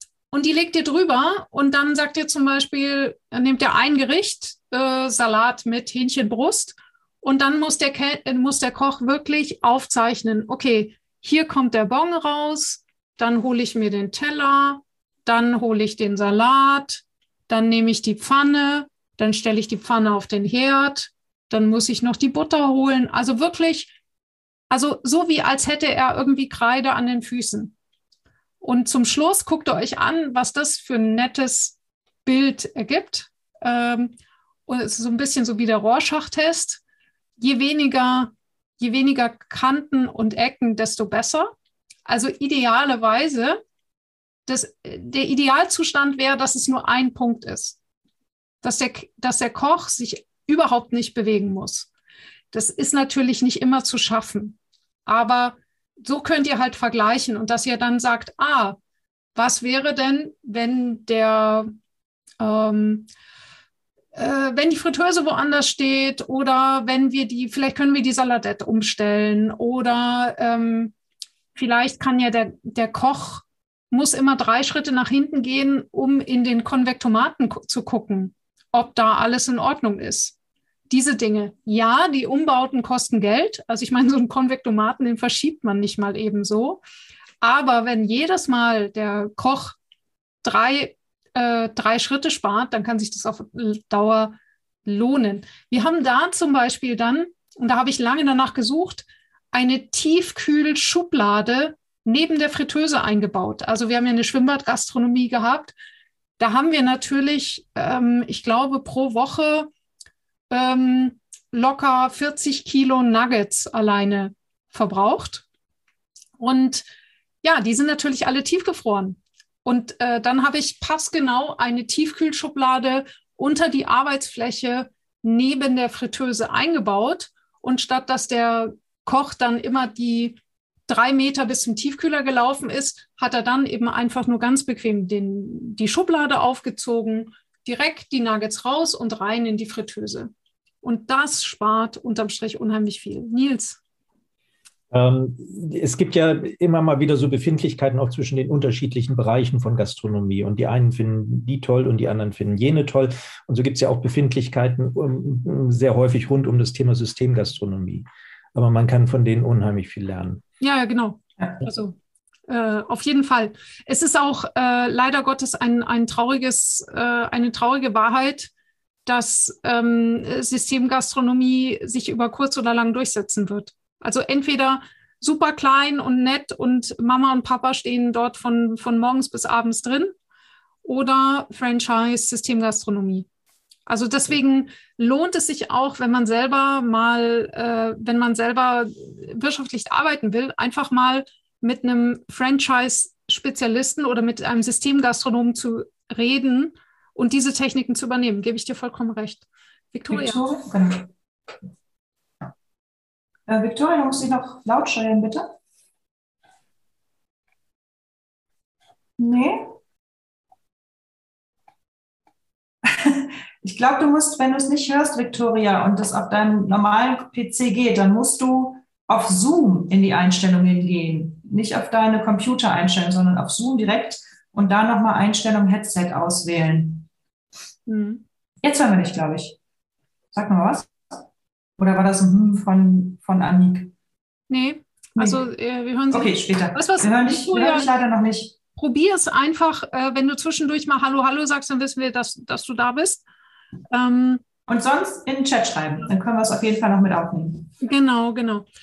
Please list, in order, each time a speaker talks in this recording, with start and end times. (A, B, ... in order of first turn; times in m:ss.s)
0:00.3-0:23.9 A
0:24.7-0:27.7 A
0:28.6-0:34.1 A
0:34.7-0:36.8 A
0:37.4-0:41.5 A
0:42.0-0:43.6 A
0:44.4-0:47.8 A
0:48.6-0:51.9 A
0:52.5-0:58.8 A
0:59.3-1:01.7 A
1:02.4-1:03.1 A
1:04.1-1:10.9 A
1:11.6-1:20.3 A
1:20.9-1:26.8 A
1:27.4-1:29.8 A
1:30.4-1:45.7 A
1:46.4-1:49.7 A
1:50.5-1:55.4 A
1:56.4-1:56.9 A
1:57.4-2:20.3 A
2:20.8-2:23.8 A
2:24.9-2:40.4 B
2:40.6-2:42.0 A
2:42.5-2:48.5 A
2:49.0-3:00.1 A
3:00.8-3:03.3 A
3:03.9-3:20.4 A
3:20.1-3:21.1 C
3:23.5-3:25.5 C
3:29.2-3:29.8 C
3:32.8-3:47.1 C
3:47.9-3:48.2 A
3:48.6-3:49.6 C
3:50.3-3:51.2 C
3:51.8-3:53.9 C
3:54.5-3:57.9 A
3:55.2-3:55.4 C
3:56.1-3:58.5 C
3:58.8-4:03.2 A
4:03.9-4:04.4 A
4:04.7-4:07.7 C
4:07.8-4:08.6 A